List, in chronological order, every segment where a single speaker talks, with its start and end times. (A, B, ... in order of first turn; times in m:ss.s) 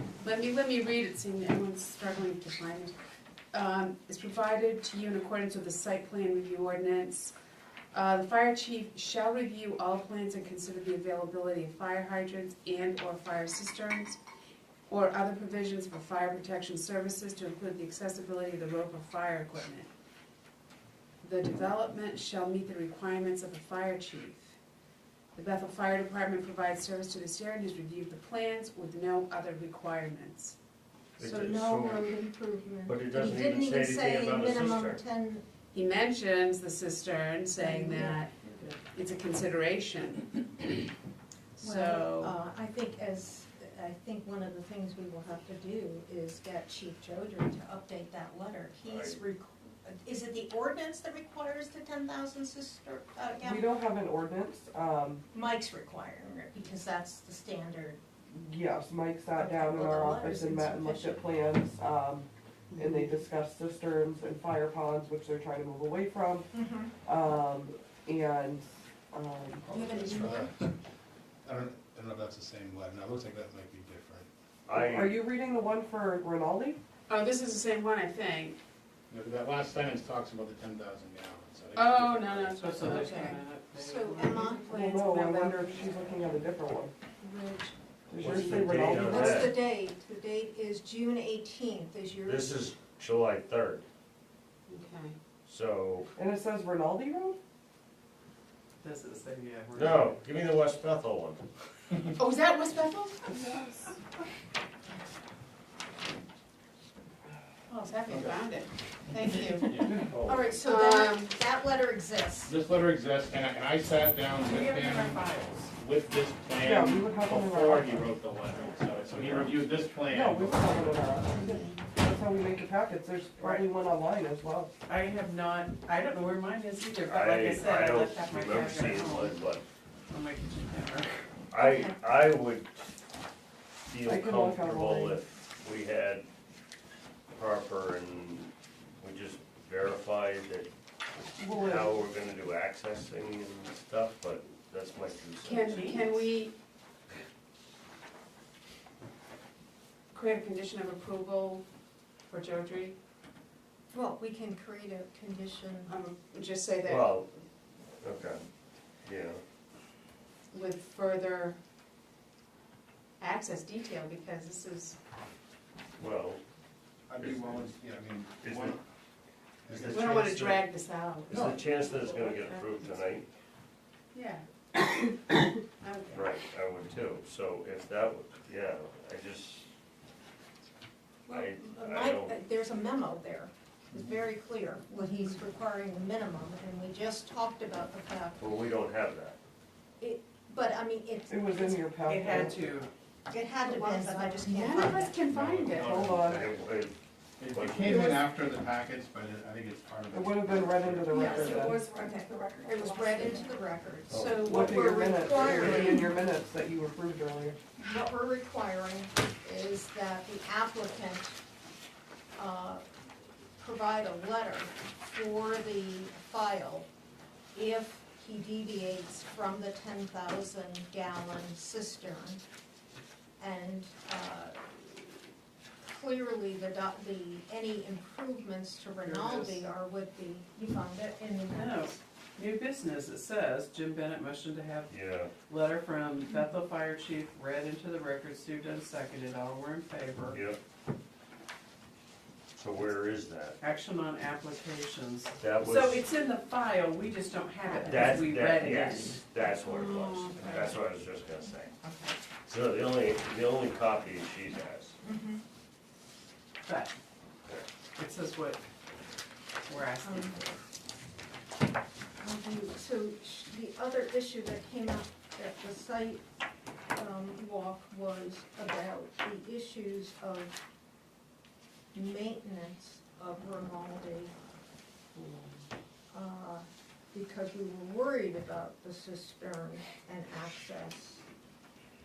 0:00.2-0:03.0 A
0:03.5-0:07.4 A
0:07.9-0:14.2 A
0:14.9-0:19.9 A
0:21.2-0:24.5 A
0:25.4-0:30.6 A
0:31.2-0:32.1 B
0:31.2-0:35.4 C
0:32.9-0:35.0 B
0:35.7-0:38.4 A
0:37.6-0:38.2 C
0:38.9-0:40.8 A
0:41.6-0:53.7 C
0:41.6-0:42.4 A
0:48.8-0:49.2 B
0:53.4-0:55.2 D
0:55.3-0:58.0 C
0:58.3-1:06.5 D
0:59.4-1:01.2 C
1:02.7-1:03.0 A
1:06.5-1:06.9 C
1:07.0-1:10.1 D
1:09.7-1:10.7 E
1:09.7-1:10.5 C
1:11.4-1:14.3 E
1:14.7-1:15.2 B
1:14.7-1:16.8 D
1:17.1-1:18.6 A
1:19.1-1:22.8 E
1:21.8-1:23.4 A
1:22.6-1:24.5 F
1:22.8-1:24.8 C
1:24.4-1:26.1 A
1:24.7-1:26.9 D
1:27.2-1:27.8 C
1:28.1-1:29.5 D
1:28.2-1:29.6 B
1:28.3-1:32.6 C
1:32.2-1:33.9 B
1:34.7-1:35.2 A
1:35.5-1:36.1 B
1:36.2-1:37.4 D
1:38.8-1:40.2 F
1:39.8-1:41.4 B
1:42.2-1:43.9 A
1:47.7-1:51.4 A
1:48.1-1:48.4 E
1:49.7-1:50.4 E
1:50.3-1:52.5 C
1:52.4-2:01.2 E
1:54.4-1:55.7 F
1:56.6-1:58.1 D
2:00.1-2:04.7 D
2:01.3-2:01.8 A
2:03.4-2:03.6 F
2:04.9-2:09.4 F
2:07.1-2:09.6 B
2:10.1-2:11.1 F
2:11.5-2:12.9 B
2:11.6-2:12.0 C
2:13.9-2:16.3 B
2:14.0-2:15.2 D
2:17.3-2:20.7 B
2:21.4-2:22.0 D
2:21.5-2:26.0 B
2:25.4-2:26.5 A
2:25.6-2:26.2 F
2:30.1-2:31.6 A
2:32.3-2:33.0 A
2:33.9-2:36.0 C
2:35.9-2:37.1 A
2:36.9-2:37.3 B
2:38.0-2:38.4 B
2:39.0-2:39.4 B
2:40.5-2:41.6 A
2:43.2-2:45.0 A
2:46.0-2:46.4 B
2:47.1-2:48.8 E
2:47.2-2:47.7 B
2:48.4-2:48.8 B
2:49.7-2:50.3 E
2:49.7-2:50.6 B
2:49.9-2:53.0 A
2:51.3-2:53.3 B
2:54.1-2:54.5 A
2:55.8-2:56.3 A
2:56.1-2:59.7 B
3:01.3-3:08.4 C
3:01.3-3:02.4 B
3:08.4-3:09.4 B
3:10.0-3:12.0 C
3:11.3-3:12.7 D
3:12.0-3:12.9 F
3:13.3-3:15.2 C
3:13.6-3:16.1 A
3:15.3-3:16.5 E
3:15.7-3:16.5 D
3:16.2-3:17.0 B
3:17.4-3:21.6 E
3:17.5-3:18.1 B
3:17.8-3:18.2 C
3:20.1-3:21.8 D
3:21.1-3:26.1 C
3:22.7-3:23.4 A
3:24.1-3:24.5 B
3:24.4-3:27.6 D
3:27.9-3:31.4 C
3:32.4-3:32.8 C
3:33.6-3:36.9 C
3:37.5-3:42.4 C
3:43.4-3:45.2 C
3:45.8-3:52.0 C
3:49.0-3:49.7 F
3:51.5-4:00.4 F
3:54.9-3:55.3 B
4:00.3-4:00.6 B
4:02.6-4:03.6 B
4:03.6-4:09.2 F
4:05.4-4:06.0 B
4:07.9-4:11.7 B
4:09.5-4:10.8 A
4:12.5-4:15.0 B
4:15.0-4:15.4 C
4:16.7-4:16.9 F
4:18.0-4:18.6 F
4:19.7-4:20.4 F
4:20.0-4:20.5 C
4:22.2-4:26.2 C
4:26.9-4:30.6 C
4:31.9-4:34.3 C
4:36.1-4:41.2 C